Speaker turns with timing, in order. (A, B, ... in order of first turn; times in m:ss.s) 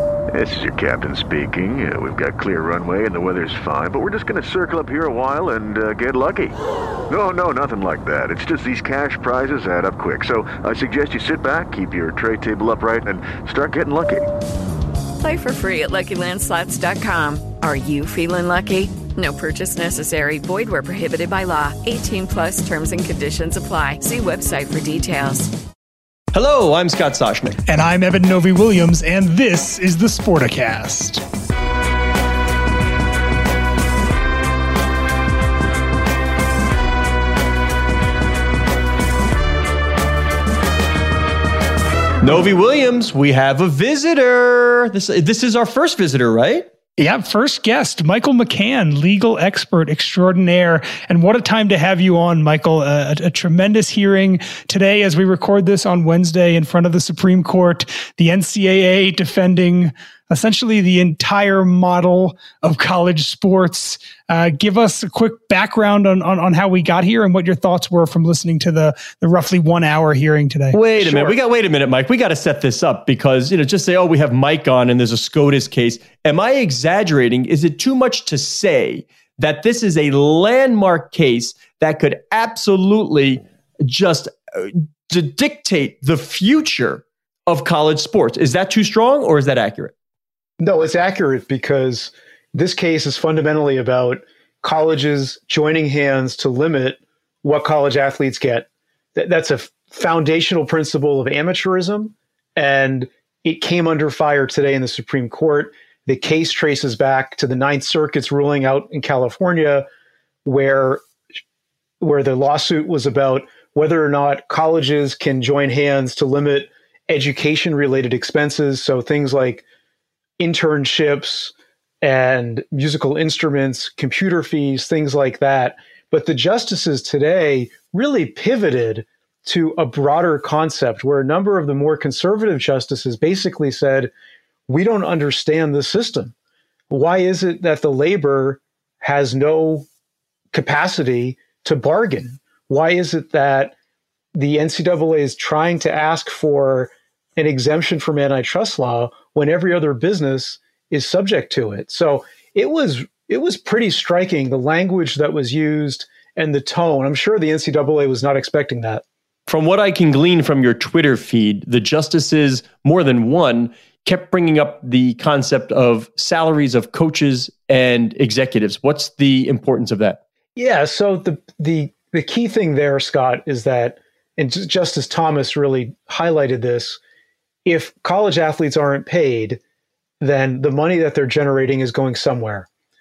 0:00.3-0:06.5 A
0:07.1-0:14.3 A
0:15.2-0:25.5 B
0:26.3-0:27.6 C
0:27.7-0:31.2 D
0:42.2-0:46.7 C
0:47.0-1:11.3 D
1:10.7-1:29.9 C
1:30.6-1:49.8 E
1:50.4-1:51.0 E
1:52.0-1:59.6 E
2:00.4-2:14.1 E
2:14.7-2:16.3 E
2:16.9-2:19.9 E
2:20.5-2:23.7 E
2:24.3-2:39.0 E
2:39.5-2:50.2 C
2:50.6-2:57.0 E
2:57.6-2:59.6 E
3:00.2-3:02.7 E